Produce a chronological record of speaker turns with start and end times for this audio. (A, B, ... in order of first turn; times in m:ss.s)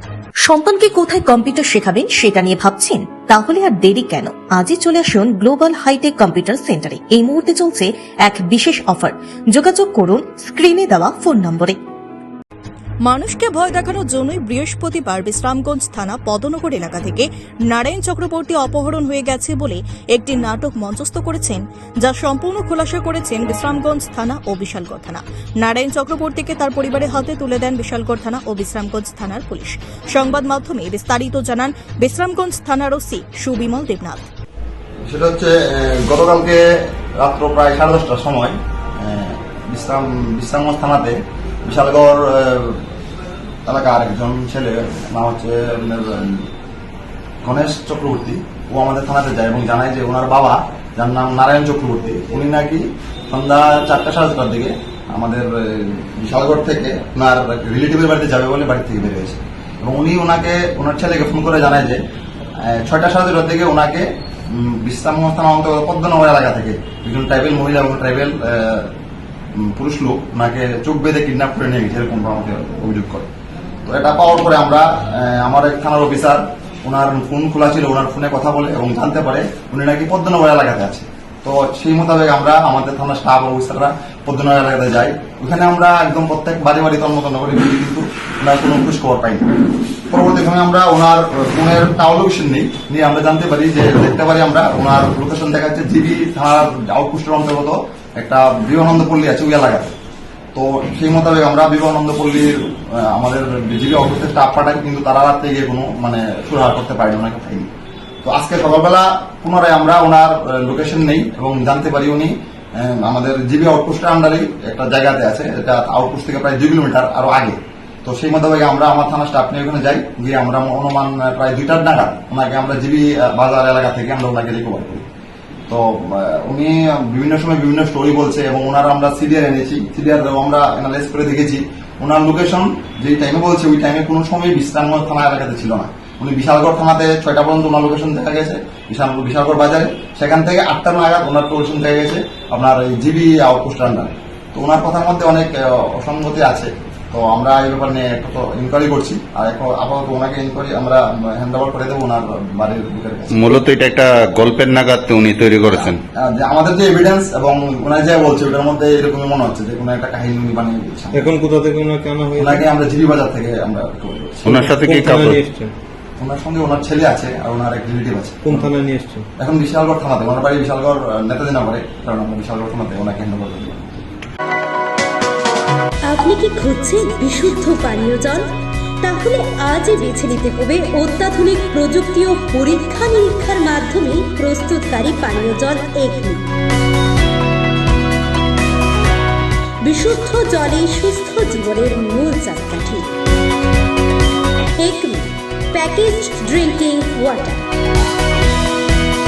0:00.4-0:11.8 A
0:13.1-0:34.3 B
0:35.1-0:42.8 C
0:43.7-0:46.5 C
0:47.4-1:02.0 C
1:02.6-1:08.9 C
1:09.6-1:13.3 C
1:13.9-1:29.5 C
1:30.1-1:39.9 C
1:40.6-1:47.7 C
1:48.2-2:05.0 C
2:05.7-2:33.6 C
2:33.3-2:36.0 D
2:35.7-2:41.4 C
2:41.1-2:42.7 E
2:42.4-2:44.5 C
2:44.4-2:45.4 D
2:44.5-2:45.7 E
2:46.2-2:48.7 C
2:48.4-2:49.2 E
2:49.4-2:53.8 C
2:56.1-2:58.5 F
2:59.0-3:06.4 F
3:09.8-3:13.1 F
3:14.8-3:17.6 F